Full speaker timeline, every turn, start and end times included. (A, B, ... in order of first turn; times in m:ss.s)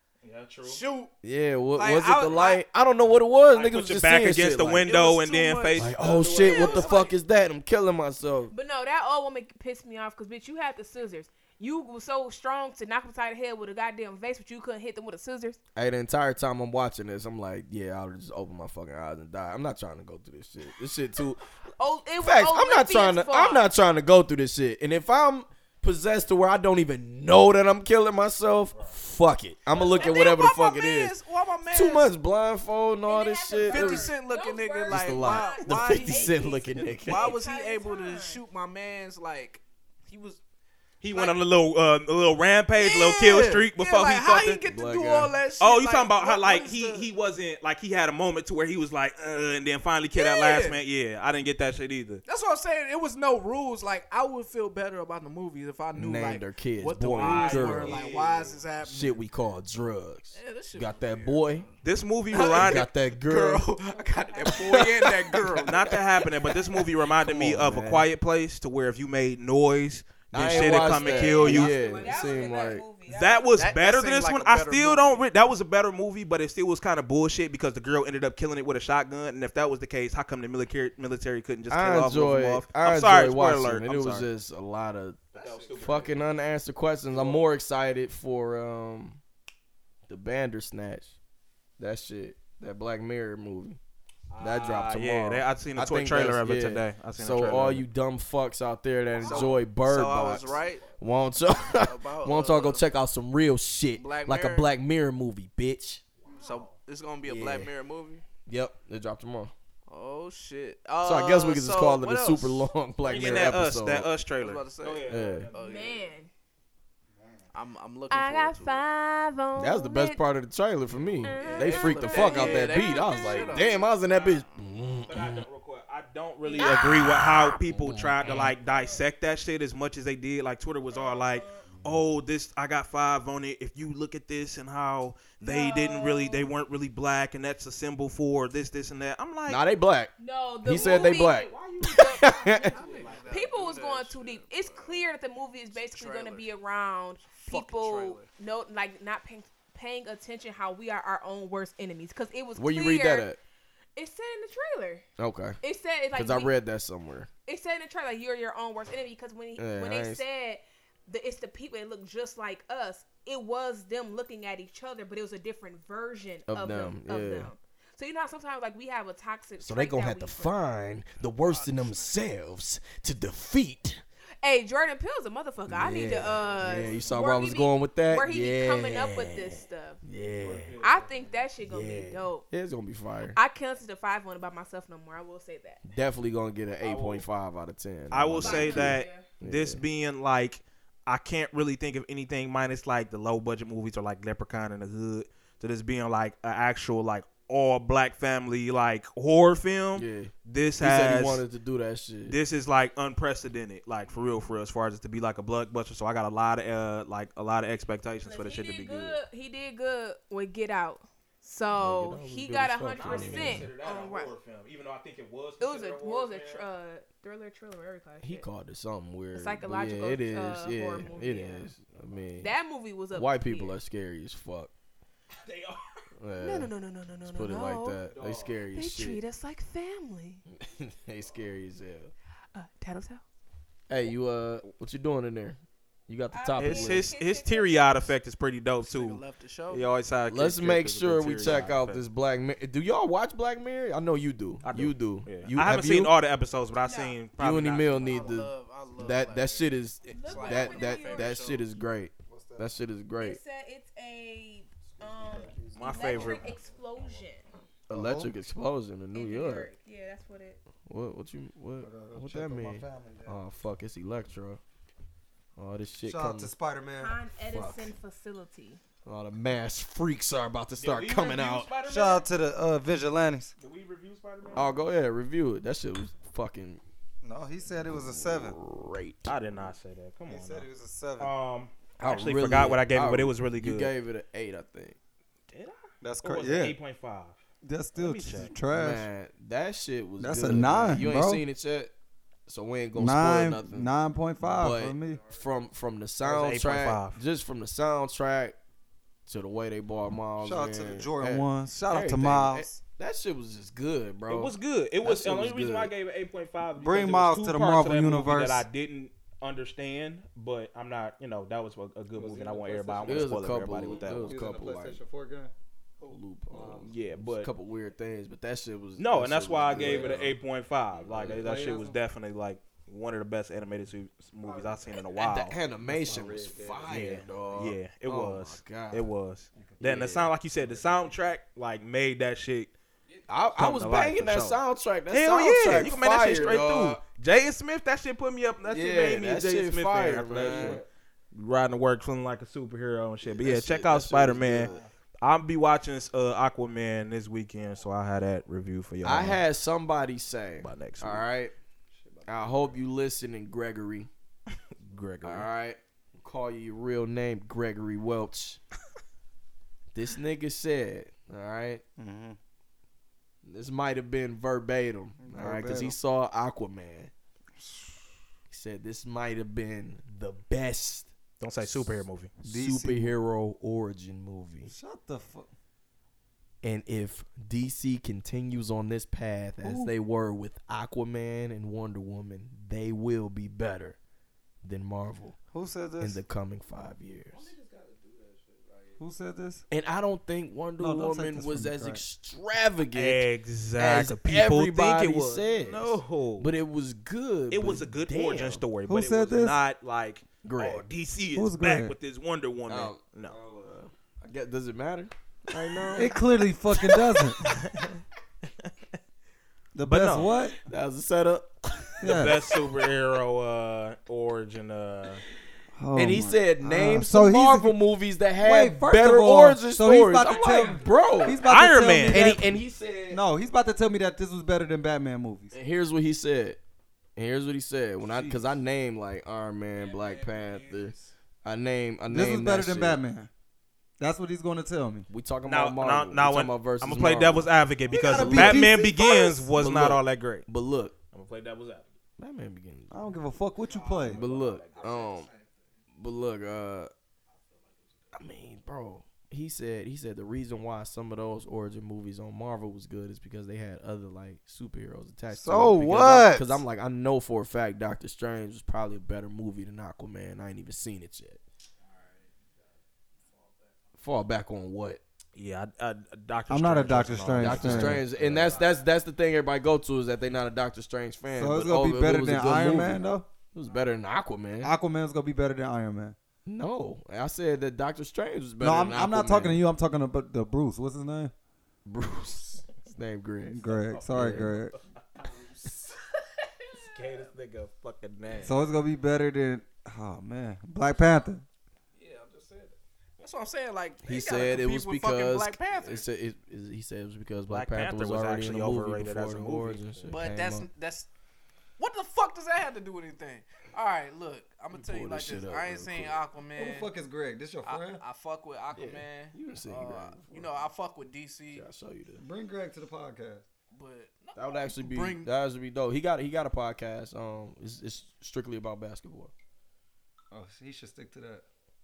0:00.2-0:00.8 A
0:00.6-0:01.1 B
0:01.2-0:04.9 C
0:01.8-0:02.6 B
0:03.5-0:07.0 A
0:04.8-0:07.1 B
0:05.8-0:08.5 C
0:06.4-0:07.0 D
0:08.5-0:15.6 D
0:15.8-0:21.4 C
0:21.8-0:23.7 D
0:22.2-0:31.2 C
0:29.7-0:32.2 B
0:31.7-0:34.2 C
0:33.1-0:38.4 D
0:33.7-0:40.4 B
0:34.9-0:37.4 C
0:41.0-0:44.6 A
0:41.1-0:41.4 B
0:42.8-0:47.1 B
0:44.7-0:45.4 C
0:45.6-0:52.2 A
0:50.2-0:50.8 B
0:52.3-0:59.2 B
0:55.9-0:58.0 C
0:57.2-0:58.6 A
0:58.8-1:01.7 C
1:00.3-1:01.8 B
1:01.8-1:02.9 A
1:02.3-1:06.0 B
1:02.4-1:03.6 C
1:03.9-1:04.7 D
1:04.4-1:05.7 C
1:05.7-1:11.8 A
1:07.2-1:08.1 C
1:10.3-1:12.8 C
1:10.5-1:13.5 D
1:11.5-1:12.1 B
1:13.1-1:24.3 A
1:13.6-1:15.2 B
1:21.7-1:29.2 C
1:25.4-1:26.1 A
1:25.4-1:25.7 B
1:27.1-1:27.4 A
1:30.1-1:31.2 C
1:31.8-1:33.8 C
1:34.3-1:37.8 A
1:34.4-1:46.0 C
1:39.2-1:39.6 A
1:39.2-1:40.9 B
1:41.7-1:42.9 B
1:44.0-1:44.7 B
1:46.3-1:46.6 A
1:46.4-1:48.2 B
1:47.2-1:47.7 C
1:48.5-1:49.5 C
1:49.9-1:53.5 B
1:51.0-1:54.1 C
1:53.0-1:55.6 A
1:54.4-1:56.1 B
1:55.1-1:55.5 C
1:55.5-1:56.3 D
1:57.5-1:58.8 B
1:58.1-2:00.2 D
1:59.6-2:05.4 C
2:01.2-2:03.8 D
2:01.3-2:04.7 B
2:05.1-2:19.6 A
2:06.4-2:07.6 D
2:07.6-2:08.5 C
2:08.6-2:09.0 D
2:10.9-2:11.6 D
2:15.4-2:16.5 D
2:19.5-2:22.7 C
2:20.2-2:33.3 D
2:20.7-2:23.6 A
2:22.7-2:25.1 B
2:25.8-2:26.5 B
2:27.3-2:28.3 B
2:32.6-2:33.4 C
2:34.0-2:35.0 D
2:35.2-2:35.6 C
2:35.6-2:36.5 D
2:36.1-2:37.3 C
2:37.5-2:50.5 D
2:39.6-2:40.2 C
2:46.5-2:47.5 C
2:49.6-2:54.0 C
2:51.4-2:52.2 B
2:54.4-3:00.0 D
2:55.7-3:00.8 C
2:56.4-2:57.0 A
3:00.4-3:01.3 A
3:00.8-3:02.5 D
3:01.6-3:03.4 C
3:03.3-3:05.8 D
3:05.9-3:09.8 C
3:06.8-3:07.2 A
3:08.1-3:21.4 A
3:08.4-3:09.2 D
3:20.0-3:22.4 C
3:22.3-3:29.2 A
3:28.2-3:34.4 D
3:31.8-3:33.7 C
3:33.0-3:36.6 A
3:35.6-3:38.5 D
3:38.2-3:42.5 C
3:39.3-3:41.7 D
3:42.4-3:43.8 D
3:43.1-3:44.7 C
3:45.4-3:46.1 A
3:46.2-3:46.7 C
3:46.4-3:48.0 D
3:47.2-3:49.2 C
3:48.1-3:48.6 A
3:48.7-3:50.4 D
3:50.5-3:52.1 C
3:52.5-3:53.2 D
3:53.9-3:57.1 C
3:56.3-3:58.1 D
3:56.6-4:02.0 A
3:58.8-3:59.9 B
4:00.3-4:06.1 C
4:04.6-4:08.3 A
4:06.8-4:07.2 D
4:07.4-4:13.4 C
4:07.9-4:11.7 B
4:10.1-4:11.4 D
4:12.3-4:12.7 E
4:13.2-4:17.4 D
4:15.0-4:16.5 E
4:15.8-4:16.5 A
4:17.9-4:18.3 E
4:17.9-4:19.7 C
4:19.1-4:20.6 D
4:20.9-4:24.6 C
4:21.8-4:23.4 E
4:25.6-4:26.5 C
4:26.0-4:27.2 E
4:27.0-4:28.8 D
4:27.5-4:27.9 C
4:29.0-4:31.7 C
4:30.8-4:32.3 A
4:31.8-4:33.5 E
4:33.6-4:34.8 A
4:34.5-4:36.8 C
4:37.2-4:38.6 E
4:37.8-4:39.7 C
4:39.3-4:40.7 A
4:40.3-4:41.3 E
4:41.2-4:43.9 A
4:42.0-4:45.0 C
4:45.5-4:47.4 A
4:46.0-4:46.8 E
4:47.6-4:49.1 E
4:48.0-4:48.5 A
4:48.7-4:51.9 C
4:50.2-4:51.4 E
4:52.5-4:53.9 C
4:53.0-4:55.3 E
4:54.4-4:58.6 C
4:55.1-4:55.4 B
4:56.2-4:57.2 A
4:59.3-5:04.5 C
5:00.4-5:02.8 E
5:04.3-5:14.4 A
5:05.0-5:05.9 C
5:06.8-5:08.7 E
5:12.1-5:15.5 E
5:13.0-5:15.0 C
5:16.1-5:16.9 E
5:16.1-5:20.4 C
5:16.9-5:17.5 A
5:19.0-5:25.6 A
5:19.7-5:20.3 E
5:21.1-5:22.0 E
5:21.1-5:21.8 C
5:25.1-5:29.1 C
5:25.8-5:27.6 E
5:26.9-5:32.7 A
5:29.6-5:31.1 E
5:29.8-5:30.3 C
5:33.3-5:37.0 C
5:33.6-5:44.7 A
5:38.7-5:40.8 C
5:40.3-5:40.9 E
5:43.3-5:44.8 C
5:44.5-5:44.9 E
5:45.2-5:49.4 A
5:49.0-5:51.5 C
5:50.6-5:51.2 A
5:52.0-5:52.8 E
5:52.3-5:54.1 C
5:54.8-5:55.5 A
5:55.2-5:58.6 C
5:59.9-6:01.8 C
6:02.0-6:02.4 E
6:03.4-6:07.1 C
6:05.2-6:06.0 E
6:08.5-6:11.1 C
6:11.4-6:12.3 A
6:12.4-6:13.2 E
6:12.4-6:14.7 C
6:14.6-6:15.5 E
6:16.6-6:24.0 C
6:19.6-6:19.9 E
6:24.6-6:25.4 C
6:25.5-6:26.2 E
6:26.0-6:27.5 C
6:27.4-6:29.0 B
6:29.0-6:29.6 E
6:29.7-6:38.6 C
6:30.8-6:32.0 E
6:32.9-6:36.5 A
6:37.5-6:43.4 A
6:38.9-6:39.6 E
6:40.4-6:40.8 C
6:41.3-6:42.0 E
6:42.7-6:46.2 C
6:45.9-6:47.4 E
6:47.4-6:48.0 A
6:49.8-6:50.6 E
6:49.8-6:50.3 A
6:50.6-6:52.3 C
6:52.0-6:52.4 E
6:52.0-6:55.2 A
6:55.8-6:57.8 E
6:56.0-7:01.4 C
6:58.4-7:02.6 E
7:01.4-7:02.4 A
7:02.1-7:03.2 C
7:03.1-7:05.5 E
7:05.5-7:06.6 C
7:07.2-7:13.0 C
7:08.0-7:08.4 E
7:09.8-7:11.0 B
7:12.1-7:13.3 E
7:14.0-7:15.1 E
7:15.1-7:17.5 C
7:15.5-7:20.5 A
7:17.9-7:19.5 E
7:18.1-7:18.8 C
7:19.5-7:21.0 C
7:21.1-7:21.9 A
7:22.2-7:23.1 C
7:22.9-7:24.2 E
7:23.7-7:24.0 B
7:23.8-7:25.1 A
7:24.1-7:25.3 C
7:24.7-7:25.7 B
7:26.0-7:26.9 C
7:28.1-7:41.4 C
7:35.3-7:36.6 E
7:41.9-7:42.4 B
7:43.3-7:43.7 B
7:44.0-7:45.0 C
7:45.4-7:48.7 A
7:46.5-7:48.1 E
7:47.4-7:54.7 C
7:51.3-7:53.3 E
7:54.6-7:56.2 E
7:56.5-7:59.6 C
7:58.6-8:01.3 E
8:01.9-8:03.6 C
8:03.5-8:04.8 E
8:03.7-8:04.8 A
8:04.1-8:04.5 C
8:05.2-8:05.9 B
8:06.6-8:07.3 B
8:06.8-8:08.6 A
8:08.3-8:08.5 B
8:08.4-8:11.4 E
8:12.0-8:16.1 B
8:14.0-8:20.7 C
8:17.5-8:20.1 A
8:20.1-8:21.1 B
8:21.8-8:26.9 B
8:24.7-8:26.2 C
8:26.6-8:28.0 E
8:27.6-8:31.7 B
8:28.7-8:30.7 C
8:31.5-8:32.2 C
8:32.2-8:33.4 E
8:33.7-8:35.3 B
8:34.4-8:39.3 C
8:40.3-8:41.4 E